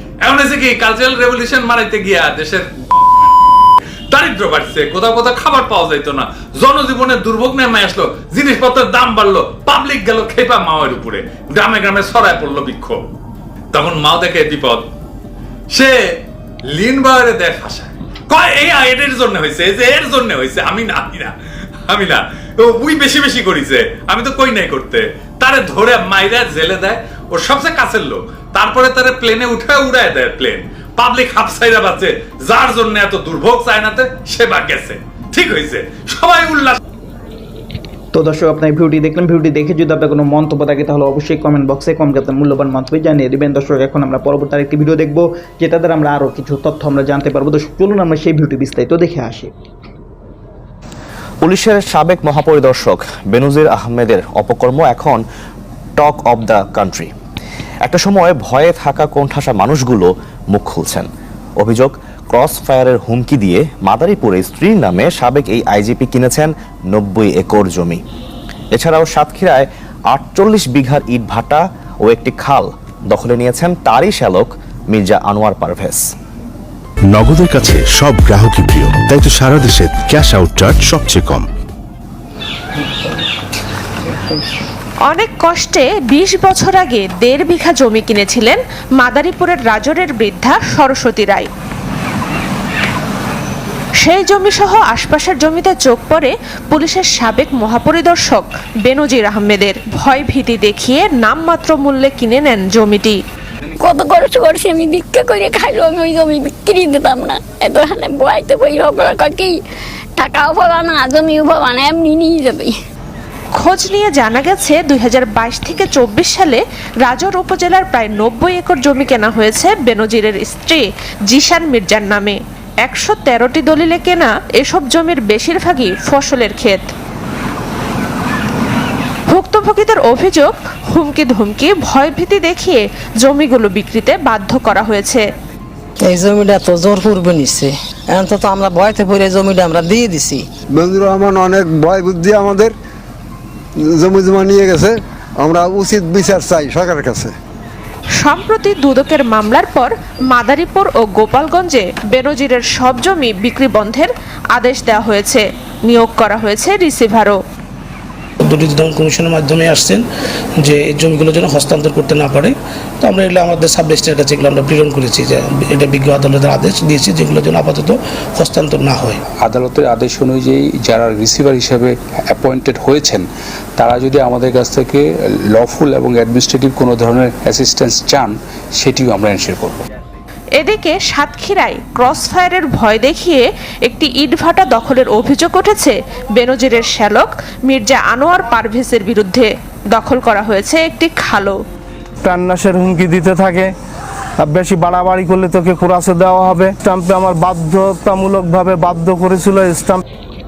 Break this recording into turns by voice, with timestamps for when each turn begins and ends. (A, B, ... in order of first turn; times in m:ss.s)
0:00.2-0:03.3 A
0:04.1-0:13.1 A
0:13.7-0:14.8 A
0:15.7-0:16.0 A
0:16.7-0:21.3 A
0:21.9-0:36.8 A
0:38.1-0:49.5 B
0:51.4-0:55.2 C
0:56.0-0:57.1 C
0:57.8-1:01.1 C
1:01.6-1:08.0 C
1:08.7-1:16.1 C
1:17.1-1:21.5 D
1:25.1-1:31.5 E
1:34.0-1:43.2 E
1:43.8-1:49.6 F
1:50.2-1:52.8 F
1:53.6-2:06.9 E
2:09.3-2:15.2 E
2:16.0-2:20.4 G
2:20.7-2:22.7 H
2:23.8-2:27.3 H
2:28.2-2:37.4 E
2:38.4-2:40.0 I
2:40.6-2:49.2 I
2:49.3-2:59.8 J
3:00.6-3:11.6 E
3:12.2-3:13.7 K
3:14.4-3:20.0 K